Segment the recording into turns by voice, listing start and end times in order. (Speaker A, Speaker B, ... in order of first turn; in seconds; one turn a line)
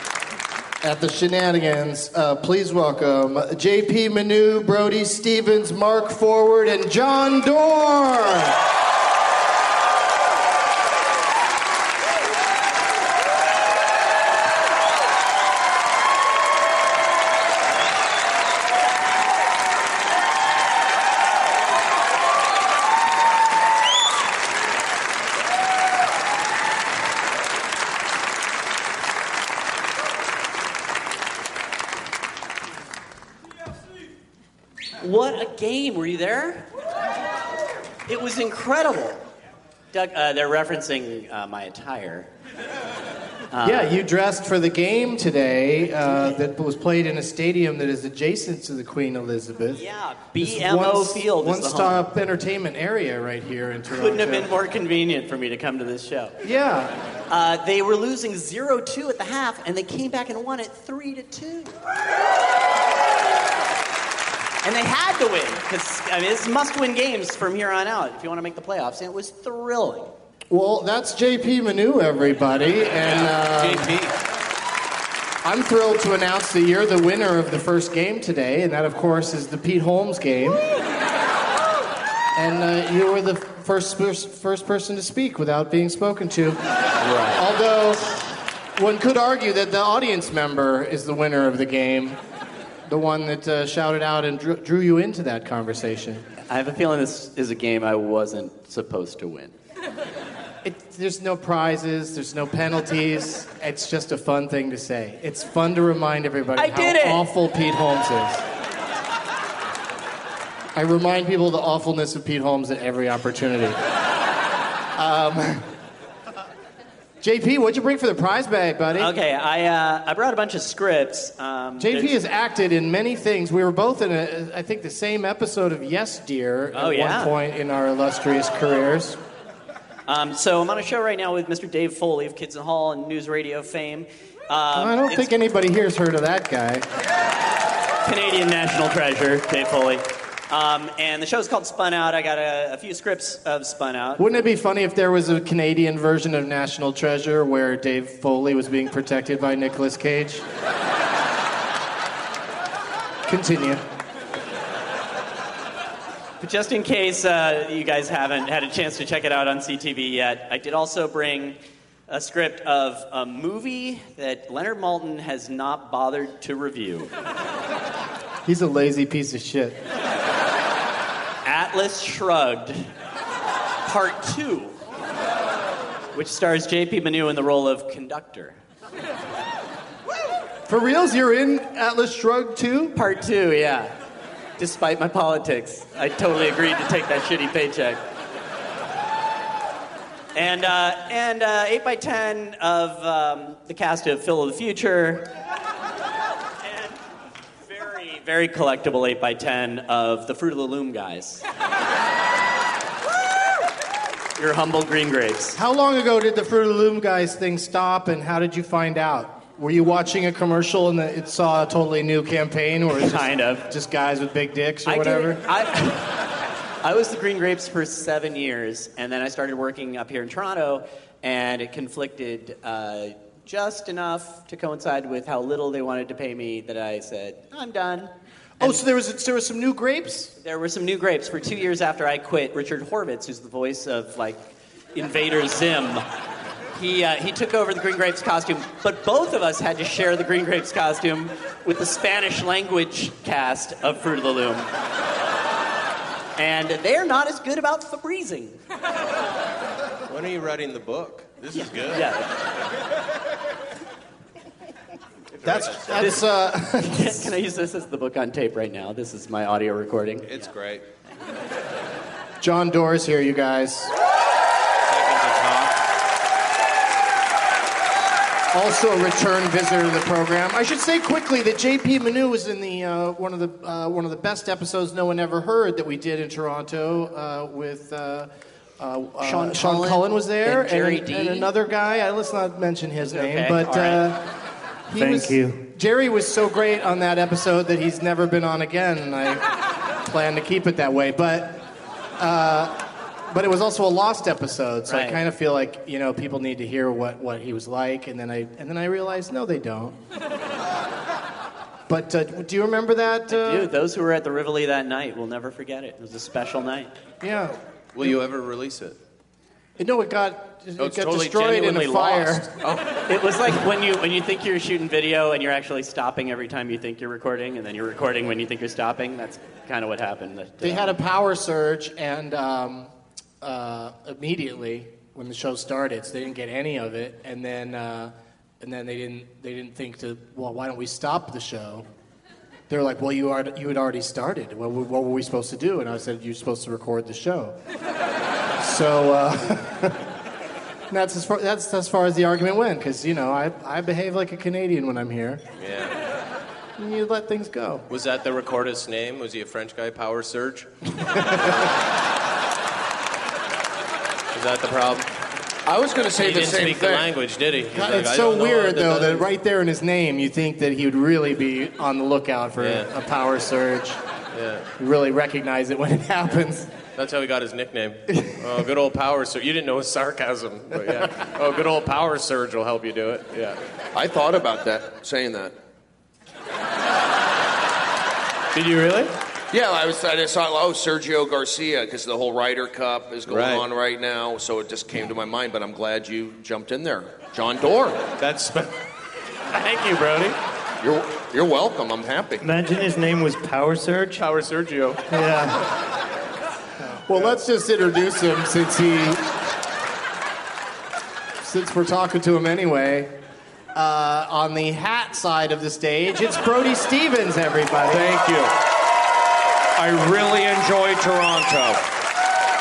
Speaker A: 0.8-8.6
Speaker B: 35.0-36.6
Speaker B: 38.1-39.2
Speaker B: 39.9-42.3
Speaker B: 43.5-43.9
Speaker A: 43.6-49.8
Speaker B: 49.7-52.0
Speaker A: 50.4-54.5
Speaker B: 53.9-56.4
Speaker A: 56.4-56.9
Speaker B: 57.3-61.8
Speaker B: 64.6-70.1
Speaker A: 70.5-73.9
Speaker C: 73.0-74.1
Speaker A: 75.4-80.6
Speaker A: 82.3-86.6
Speaker B: 87.0-87.4
Speaker A: 87.3-92.2
Speaker A: 92.8-96.2
Speaker B: 96.5-99.5
Speaker A: 100.6-108.4
Speaker B: 106.5-107.2
Speaker A: 110.7-113.8
Speaker A: 114.9-115.7
Speaker A: 117.2-119.1
Speaker B: 119.0-122.1
Speaker A: 121.8-129.2
Speaker B: 126.7-127.3
Speaker B: 130.1-135.3
Speaker A: 134.7-136.9
Speaker B: 138.0-144.4
Speaker A: 144.2-150.4
Speaker A: 153.3-153.8
Speaker B: 156.4-161.6
Speaker B: 162.1-167.1
Speaker A: 168.4-169.8
Speaker B: 171.4-172.9
Speaker B: 173.8-174.8
Speaker B: 176.1-178.6
Speaker A: 180.7-182.9
Speaker B: 182.9-183.9
Speaker B: 184.6-188.0
Speaker B: 190.3-195.3
Speaker B: 196.6-197.0
Speaker B: 197.7-201.4
Speaker B: 204.4-205.6
Speaker A: 205.5-215.4
Speaker B: 212.9-213.7
Speaker B: 214.8-216.1
Speaker B: 216.8-228.8
Speaker A: 228.6-230.3
Speaker B: 230.4-236.0
Speaker B: 236.7-244.7
Speaker B: 246.4-248.6
Speaker C: 250.1-252.1
Speaker B: 251.5-252.3
Speaker C: 255.3-256.2
Speaker A: 255.4-257.3
Speaker B: 255.9-256.2
Speaker B: 256.9-260.5
Speaker C: 260.3-260.8
Speaker A: 262.4-263.9
Speaker C: 264.9-265.7
Speaker A: 268.5-284.3
Speaker B: 279.2-281.5
Speaker B: 283.0-284.1
Speaker A: 284.9-289.5
Speaker D: 285.0-285.6
Speaker A: 290.0-291.6
Speaker A: 292.2-300.0
Speaker B: 294.9-295.2
Speaker A: 301.9-303.7
Speaker B: 303.3-306.9
Speaker A: 307.2-308.1
Speaker C: 307.9-309.0
Speaker A: 309.8-312.5
Speaker C: 310.8-312.9
Speaker B: 313.1-320.9
Speaker A: 320.6-331.9
Speaker A: 332.7-337.6
Speaker A: 338.6-340.0
Speaker A: 340.9-345.4
Speaker C: 345.6-345.9
Speaker A: 346.8-347.8
Speaker C: 347.9-350.7
Speaker A: 351.0-351.7
Speaker C: 351.2-351.7
Speaker C: 354.3-355.1
Speaker E: 355.6-357.1
Speaker C: 356.2-359.3
Speaker A: 357.7-364.0
Speaker C: 362.6-362.9
Speaker C: 364.3-364.7
Speaker A: 364.8-366.7
Speaker C: 366.9-373.6
Speaker E: 373.9-375.5
Speaker C: 378.5-379.1
Speaker E: 379.5-388.0
Speaker C: 383.3-383.6
Speaker C: 388.2-388.7
Speaker C: 389.5-390.4
Speaker E: 390.8-392.4
Speaker D: 392.4-394.2
Speaker C: 394.2-395.0
Speaker D: 395.1-395.7
Speaker A: 397.0-399.2
Speaker A: 401.4-403.1
Speaker A: 403.7-408.2
Speaker E: 407.9-408.5
Speaker E: 409.8-411.8